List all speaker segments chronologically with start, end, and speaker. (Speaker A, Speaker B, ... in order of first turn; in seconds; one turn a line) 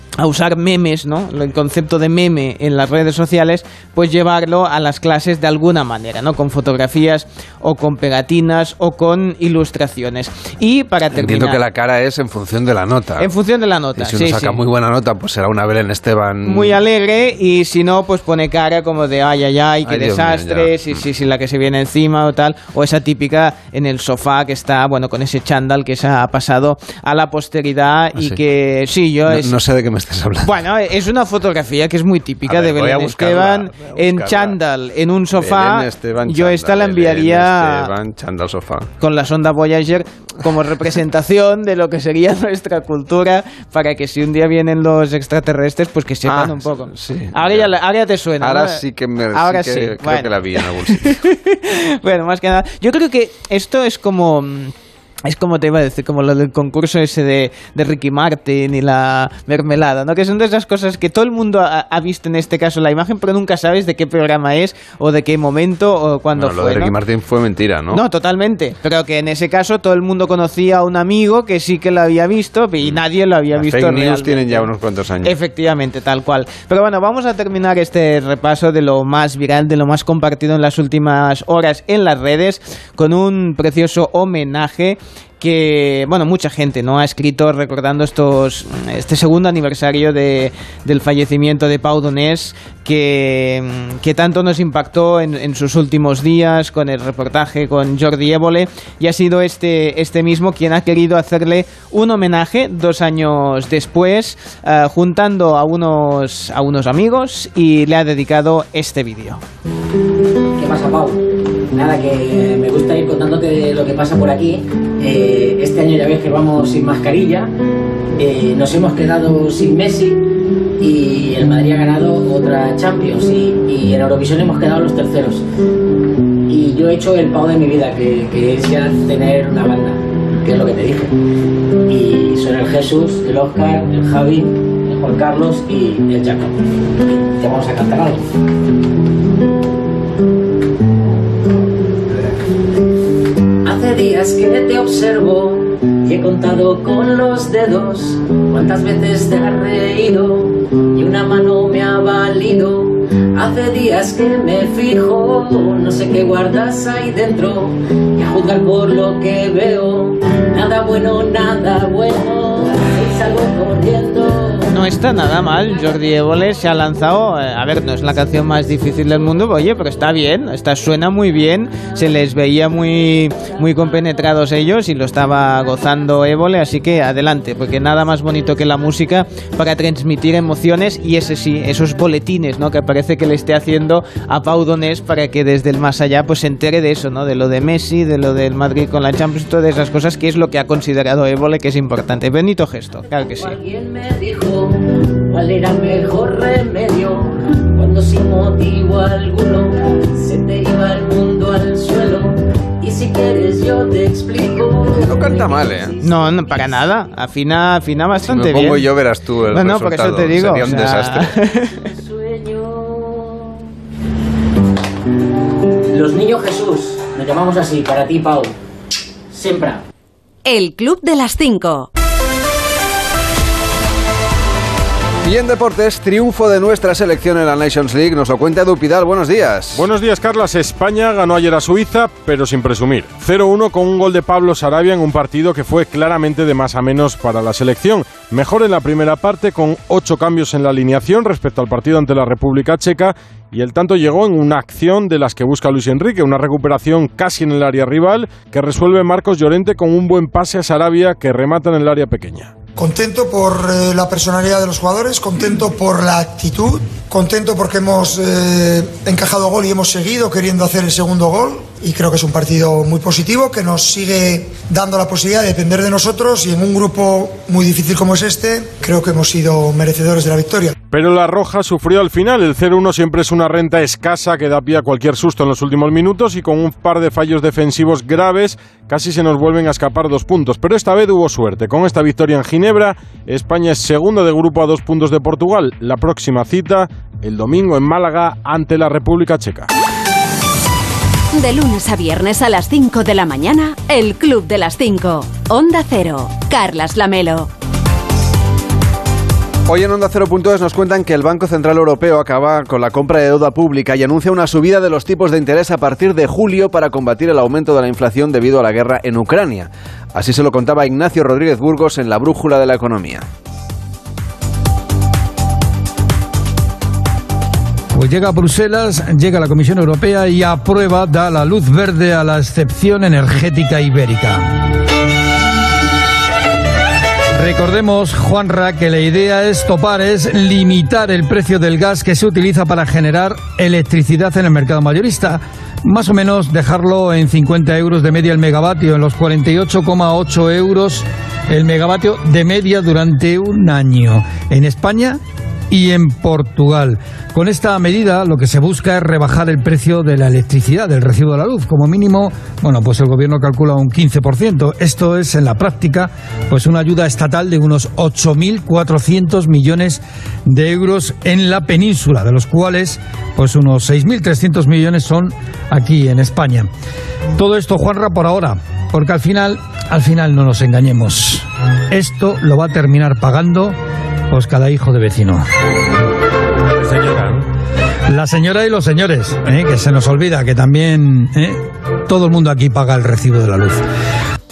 Speaker A: 0.2-11.6
Speaker B: 11.1-13.3
Speaker A: 13.2-14.6
Speaker B: 14.0-16.8
Speaker A: 16.4-29.5
Speaker B: 19.8-21.0
Speaker B: 29.3-30.5
Speaker A: 30.4-37.9
Speaker B: 32.5-34.6
Speaker B: 35.4-38.9
Speaker A: 39.0-48.8
Speaker B: 46.3-47.7
Speaker B: 48.4-51.2
Speaker A: 49.3-54.7
Speaker A: 55.2-66.9
Speaker B: 66.3-68.0
Speaker A: 67.9-74.7
Speaker B: 73.5-75.3
Speaker A: 75.2-109.4
Speaker C: 110.5-111.2
Speaker C: 111.7-117.5
Speaker C: 118.2-120.2
Speaker C: 120.8-125.4
Speaker C: 126.5-131.1
Speaker C: 131.9-138.3
Speaker C: 143.6-164.7
Speaker A: 164.7-193.6
Speaker C: 173.4-173.9
Speaker C: 193.3-206.8
Speaker B: 204.9-205.9
Speaker A: 206.0-208.8
Speaker B: 208.2-211.3
Speaker A: 209.5-211.8
Speaker C: 211.8-213.7
Speaker C: 215.9-218.5
Speaker C: 219.3-219.8
Speaker D: 220.4-221.9
Speaker B: 225.2-229.8
Speaker E: 229.8-252.5
Speaker F: 252.8-270.7
Speaker E: 270.9-289.7
Speaker D: 291.3-297.5
Speaker B: 299.7-313.2
Speaker G: 317.9-324.5
Speaker G: 327.4-345.2
Speaker G: 345.7-366.7
Speaker G: 367.4-373.8
Speaker G: 374.3-375.4
Speaker G: 376.9-377.3
Speaker G: 378.1-383.8